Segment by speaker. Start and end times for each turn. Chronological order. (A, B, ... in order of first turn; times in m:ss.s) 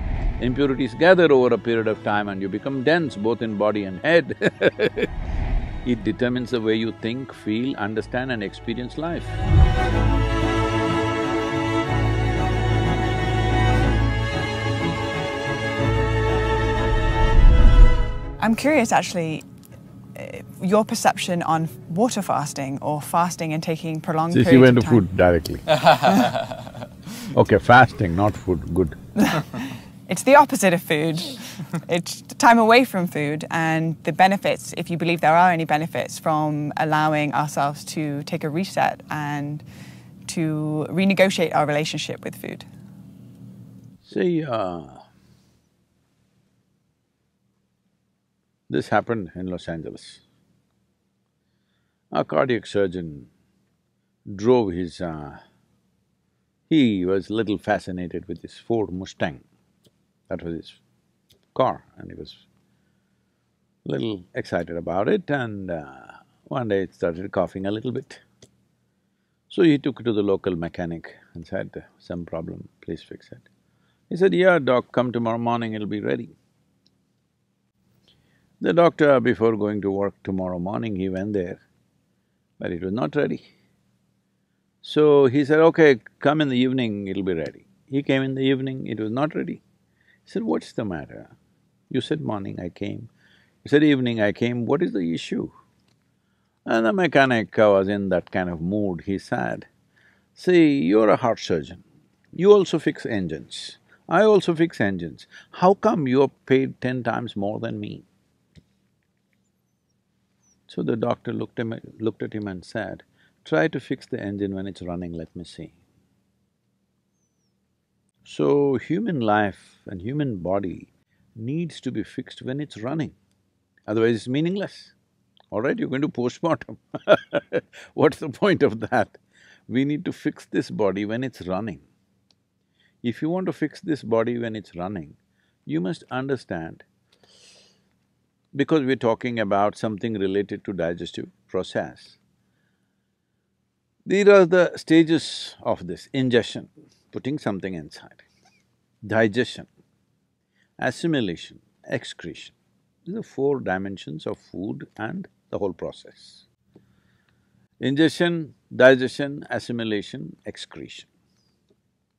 0:00.4-0:05.1 A
0:05.8-0:09.4 A
0:18.4-0:19.4 B
0:20.2-0:25.0 B
0:24.3-0:25.8 A
0:26.0-0:26.4 B
0:27.2-0:29.0 A
0:29.2-0:39.6 B
0:40.3-0:42.6 B
0:44.0-0:45.0 A
0:48.7-0:50.2 A
0:52.1-0:53.3 A
0:54.3-0:55.4 A
0:56.7-0:59.4 A
1:00.3-1:00.8 A
1:01.5-1:02.4 A
1:03.8-1:08.2 A
1:09.5-1:13.4 A
1:14.1-1:16.4 A
1:18.6-1:21.6 A
1:22.6-1:23.5 A
1:24.8-1:29.6 A
1:30.2-1:31.3 A
1:31.9-1:33.1 A
1:33.6-1:35.5 A
1:36.6-1:39.7 A
1:40.4-1:41.8 A
1:42.3-1:48.0 A
1:50.7-1:55.8 A
1:58.2-2:03.1 A
2:03.9-2:04.9 A
2:05.5-2:11.8 A
2:13.0-2:16.8 A
2:18.5-2:22.2 A
2:24.0-2:28.2 A
2:29.0-2:29.7 A
2:30.8-2:32.5 A
2:33.0-2:36.4 A
2:37.8-2:41.1 A